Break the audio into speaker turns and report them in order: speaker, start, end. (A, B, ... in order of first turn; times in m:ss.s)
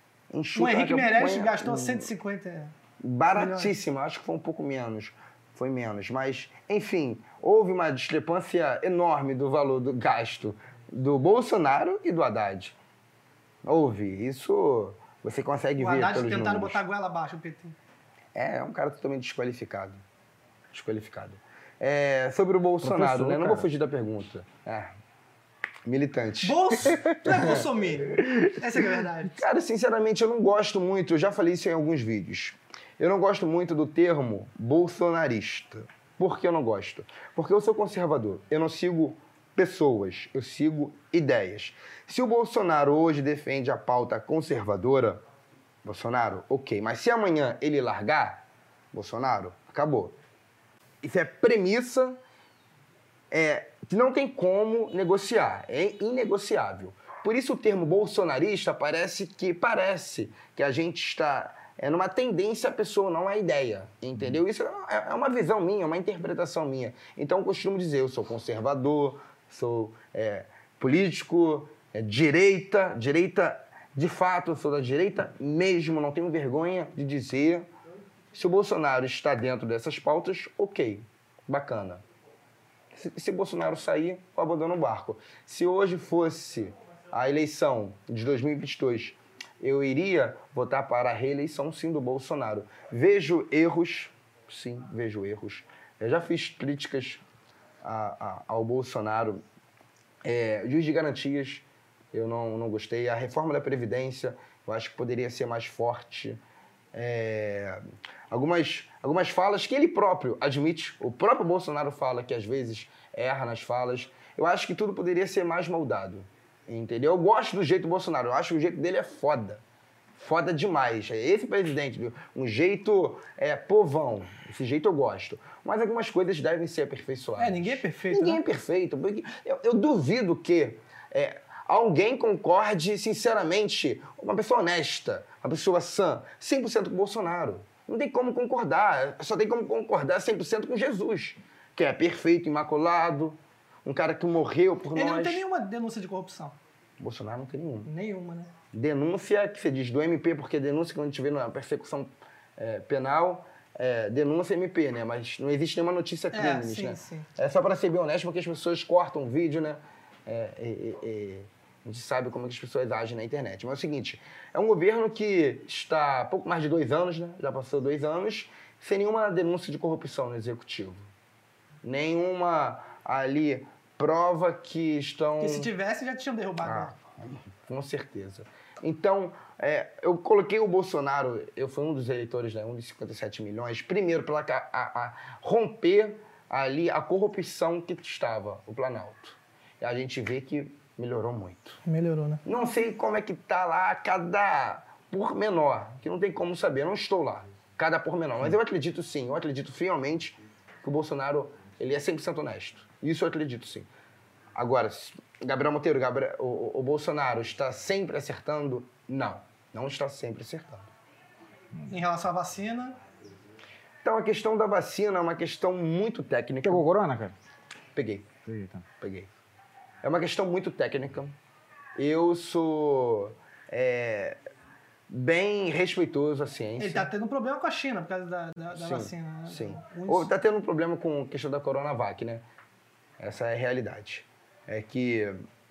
0:00.3-0:02.1 A
0:00.5-0:02.7 B
0:03.0-0:12.8 A
0:03.3-0:03.7 B
0:13.6-0:16.8 A
0:15.8-0:17.8 B
0:18.3-0:20.0 A
0:20.7-0:24.9 A
0:22.8-0:23.7 C
0:25.8-0:45.2 A
0:26.4-0:29.4 B
0:45.8-0:50.2 A
0:51.0-0:52.2 A
0:53.3-1:17.7 A
1:18.3-1:22.0 A
1:22.9-1:37.2 A
1:37.8-1:39.4 A
1:40.2-1:46.4 A
1:46.9-1:59.6 A
2:00.1-2:25.4 A
2:07.4-2:08.4 B
2:24.9-2:26.6 B
2:27.0-2:27.9 A
2:27.8-2:28.5 B
2:28.7-2:51.1 A
2:36.3-2:37.3 B
2:51.8-2:55.7 A
2:55.4-2:56.9 B
2:56.6-3:11.8 A
3:11.8-3:12.4 B
3:12.4-3:23.9 A
3:24.5-3:30.9 A
3:31.9-3:33.0 B
3:34.0-3:36.9 A
3:36.6-3:37.3 C
3:37.9-3:38.3 A
3:38.4-3:38.8 C
3:39.0-3:39.3 A
3:40.0-3:41.3 A
3:42.0-3:44.4 A
3:45.1-3:47.1 A
3:46.8-3:50.3 B
3:48.7-3:52.4 A
3:53.2-3:55.4 A